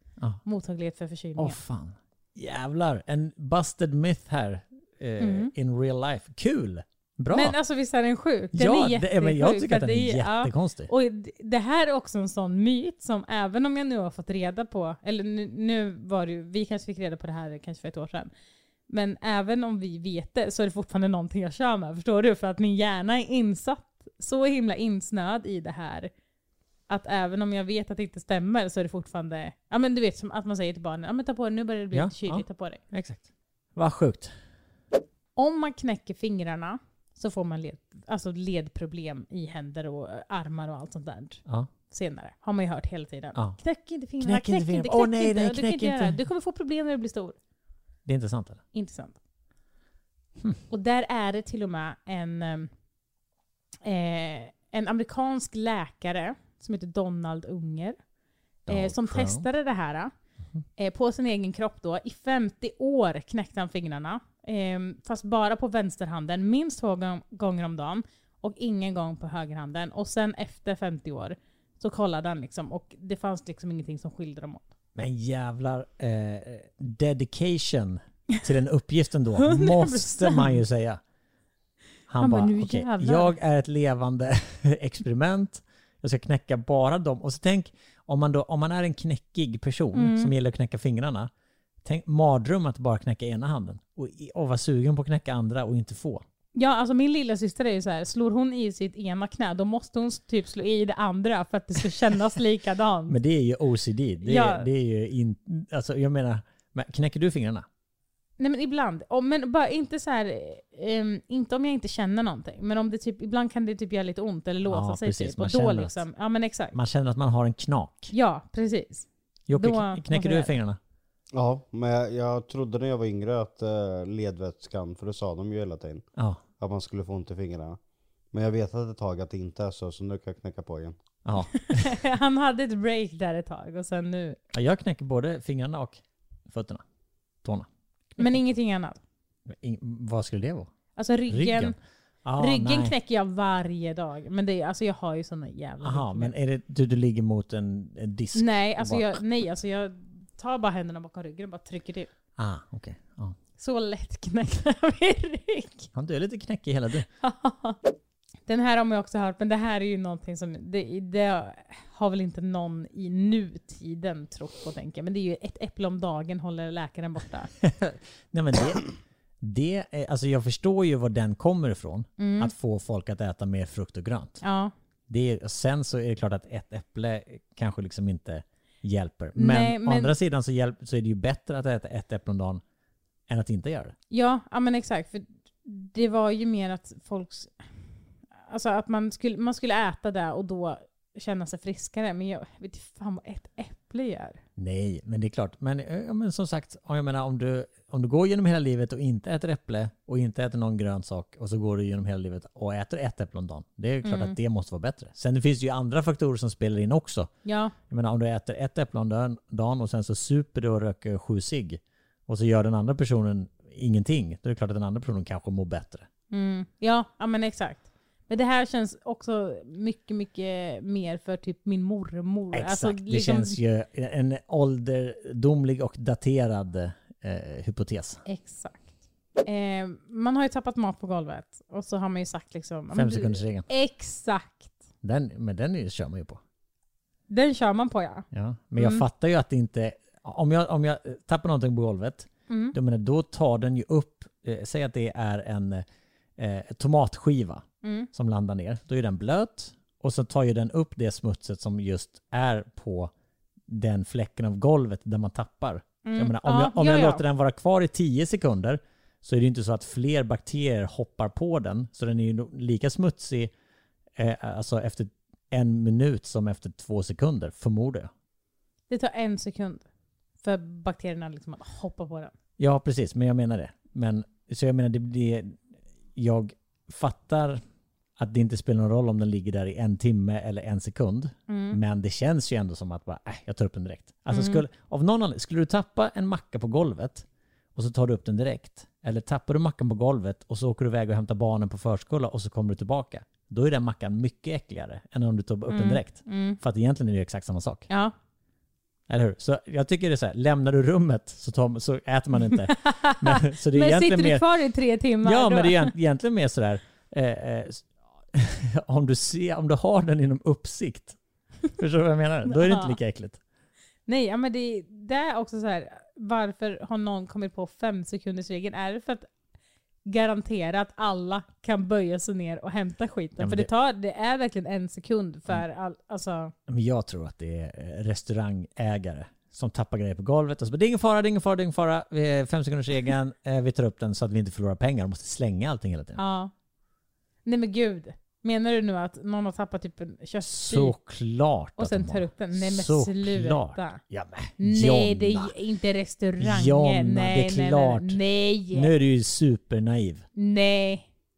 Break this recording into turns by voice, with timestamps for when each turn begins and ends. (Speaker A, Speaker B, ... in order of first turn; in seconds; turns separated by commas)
Speaker A: 0.4-1.6, Speaker B: 1.4-7.5, Speaker A: 5.2-5.5, Speaker A: 7.3-18.3, Speaker B: 8.5-10.9, Speaker A: 18.9-26.1, Speaker A: 26.9-32.8, Speaker B: 31.9-33.2, Speaker B: 33.8-34.3, Speaker A: 35.4-47.4, Speaker B: 44.2-46.2, Speaker B: 48.0-48.6, Speaker A: 48.7-49.2, Speaker A: 50.7-52.7, Speaker A: 53.8-58.0, Speaker B: 58.7-59.4, Speaker A: 58.7-60.1, Speaker A: 60.8-74.6, Speaker B: 75.0-81.0, Speaker A: 79.4-80.6, Speaker B: 82.1-91.3, Speaker A: 82.2-83.3, Speaker A: 89.9-90.3, Speaker B: 91.8-96.2, Speaker A: 96.5-103.2, Speaker B: 103.1-107.7, Speaker A: 104.2-104.7, Speaker A: 108.4-116.8, Speaker B: 114.7-116.0, Speaker B: 116.7-118.1, Speaker A: 118.1-120.5, Speaker B: 119.5-120.8, Speaker C: 121.3-126.0, Speaker C: 126.6-127.8, Speaker C: 128.3-131.0, Speaker B: 131.2-131.9, Speaker A: 131.6-134.4, Speaker B: 134.5-136.8, Speaker A: 138.2-139.0, Speaker B: 139.5-140.7, Speaker A: 140.9-141.7, Speaker B: 141.3-142.9, Speaker A: 142.4-146.3, Speaker B: 145.8-149.2, Speaker A: 148.3-152.1, Speaker B: 152.4-153.3, Speaker A: 153.6-155.9, Speaker B: 155.9-157.1, Speaker A: 157.2-157.8, Speaker A: 158.5-167.5, Speaker B: 167.6-174.4, Speaker A: 172.2-172.5, Speaker A: 174.4-174.7, Speaker B: 175.1-182.6, Speaker A: 179.3-180.1, Speaker B: 183.3-183.9, Speaker A: 184.1-187.5, Speaker A: 188.5-194.4, Speaker B: 194.6-207.3, Speaker A: 204.0-204.4, Speaker A: 207.4-207.7, Speaker B: 207.9-216.1, Speaker A: 216.3-223.6, Speaker B: 222.5-228.2, Speaker A: 228.2-228.9, Speaker A: 229.4-234.8, Speaker B: 232.9-233.7, Speaker B: 235.0-236.4, Speaker A: 237.3-238.2, Speaker B: 238.3-245.8, Speaker A: 238.8-239.0, Speaker A: 242.5-242.7, Speaker B: 246.4-253.1, Speaker A: 247.8-248.1, Speaker B: 253.7-263.5, Speaker A: 256.0-257.2, Speaker B: 264.1-268.1, Speaker A: 268.9-269.9, Speaker A: 270.4-272.3, Speaker B: 272.6-275.6, Speaker B: 276.1-277.6, Speaker B: 278.2-297.9, Speaker A: 281.5-281.8, Speaker A: 284.3-284.6, Speaker A: 295.7-296.6, Speaker A: 297.9-298.1, Speaker B: 299.1-304.4, Speaker A: 302.5-305.9, Speaker B: 305.2-311.2, Speaker B: 311.7-313.4, Speaker A: 312.5-312.9, Speaker A: 314.1-319.3, Speaker A: 320.1-326.5, Speaker B: 323.4-323.7, Speaker B: 326.7-336.2, Speaker A: 336.2-336.5, Speaker A: 337.4-340.9, Speaker B: 340.4-345.5, Speaker A: 341.8-344.0, Speaker A: 344.6-348.9, Speaker B: 346.4-348.2, Speaker B: 348.7-350.2, Speaker A: 350.4-351.1